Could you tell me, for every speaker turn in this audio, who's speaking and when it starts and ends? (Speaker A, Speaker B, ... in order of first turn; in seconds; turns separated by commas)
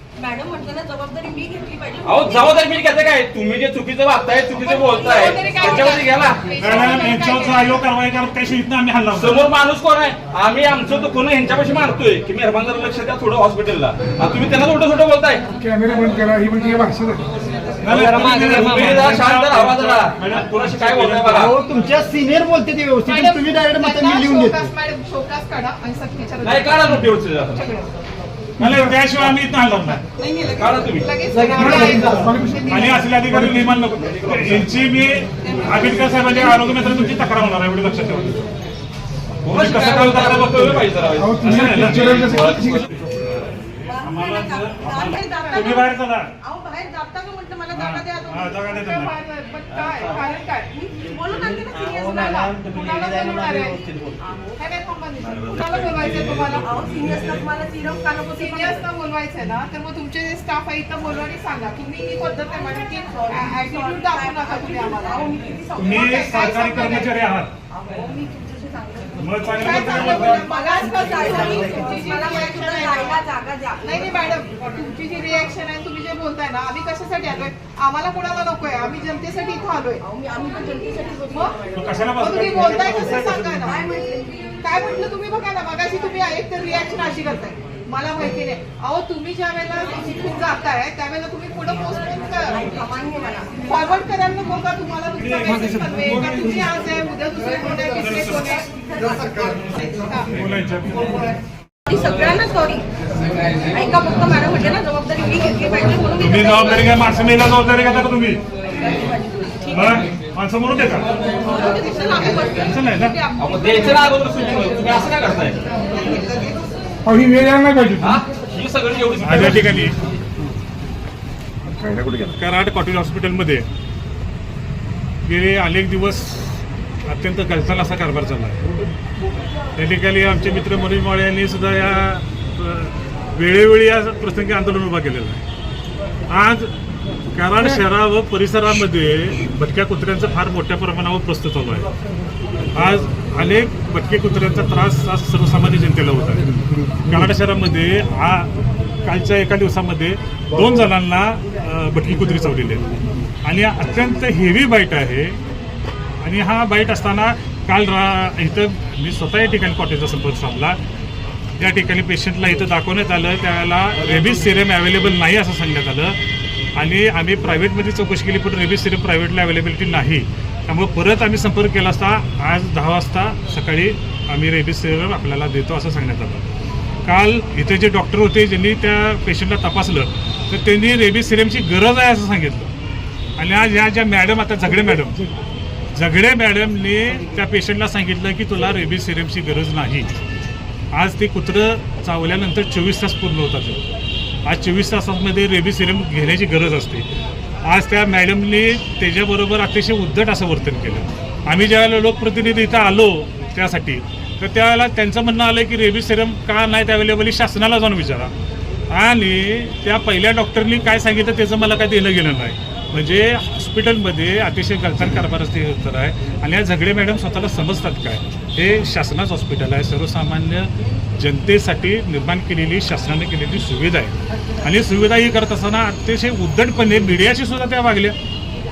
Speaker A: 0.2-2.9, Speaker B: 2.0-6.8, Speaker C: 4.6-7.8, Speaker A: 4.7-6.1, Speaker D: 6.6-9.4, Speaker B: 9.1-15.4, Speaker E: 15.5-17.2, Speaker D: 17.8-21.4, Speaker B: 17.9-21.5, Speaker A: 18.2-19.0, Speaker F: 21.2-24.7, Speaker C: 23.1-27.9, Speaker B: 26.4-27.7, Speaker D: 28.6-30.1, Speaker E: 28.6-29.0, Speaker C: 30.1-33.1, Speaker B: 30.6-32.1, Speaker E: 31.5-33.8, Speaker D: 32.7-38.5, Speaker B: 33.8-34.7, Speaker C: 35.5-36.3, Speaker B: 39.5-42.5, Speaker D: 39.5-40.9, Speaker E: 41.2-42.9, Speaker D: 41.4-42.2, Speaker A: 43.9-48.6, Speaker D: 44.0-46.3, Speaker D: 47.7-49.1, Speaker C: 48.6-50.7, Speaker B: 49.7-50.2, Speaker A: 50.7-52.6, Speaker B: 51.7-54.2, Speaker C: 52.6-53.8, Speaker C: 54.6-56.7, Speaker A: 56.6-58.8, Speaker C: 58.4-65.2, Speaker A: 62.9-66.1, Speaker D: 65.8-67.5, Speaker C: 65.9-67.2, Speaker A: 67.7-74.1, Speaker D: 69.2-70.5, Speaker C: 69.6-73.2, Speaker C: 73.8-80.0, Speaker A: 80.0-81.6, Speaker D: 81.8-83.7, Speaker C: 82.2-83.8, Speaker A: 83.7-84.6, Speaker C: 84.6-92.7, Speaker A: 92.5-93.5, Speaker C: 93.6-98.7, Speaker D: 95.2-96.4, Speaker A: 98.7-99.6, Speaker C: 99.8-100.3, Speaker D: 100.3-101.3, Speaker A: 101.9-102.8, Speaker A: 103.7-107.0, Speaker D: 106.2-108.4, Speaker A: 108.8-109.8, Speaker D: 109.7-111.1, Speaker A: 111.4-113.0, Speaker D: 112.6-113.2, Speaker C: 113.3-114.2, Speaker B: 113.4-115.6, Speaker C: 115.9-116.4, Speaker E: 117.0-118.2, Speaker B: 118.0-119.7, Speaker D: 119.2-120.0, Speaker E: 121.7-122.4, Speaker D: 122.4-123.7, Speaker D: 125.3-128.6, Speaker D: 129.8-135.4, Speaker D: 136.3-136.7, Speaker D: 137.3-141.9, Speaker D: 142.8-148.5, Speaker D: 149.1-152.8, Speaker D: 153.4-155.4, Speaker D: 156.2-160.8, Speaker D: 161.6-166.2, Speaker D: 166.8-176.5, Speaker D: 177.1-182.7, Speaker D: 183.4-185.3, Speaker D: 185.9-190.1, Speaker D: 190.9-193.8, Speaker D: 194.5-197.1, Speaker D: 197.7-208.3, Speaker D: 208.9-228.2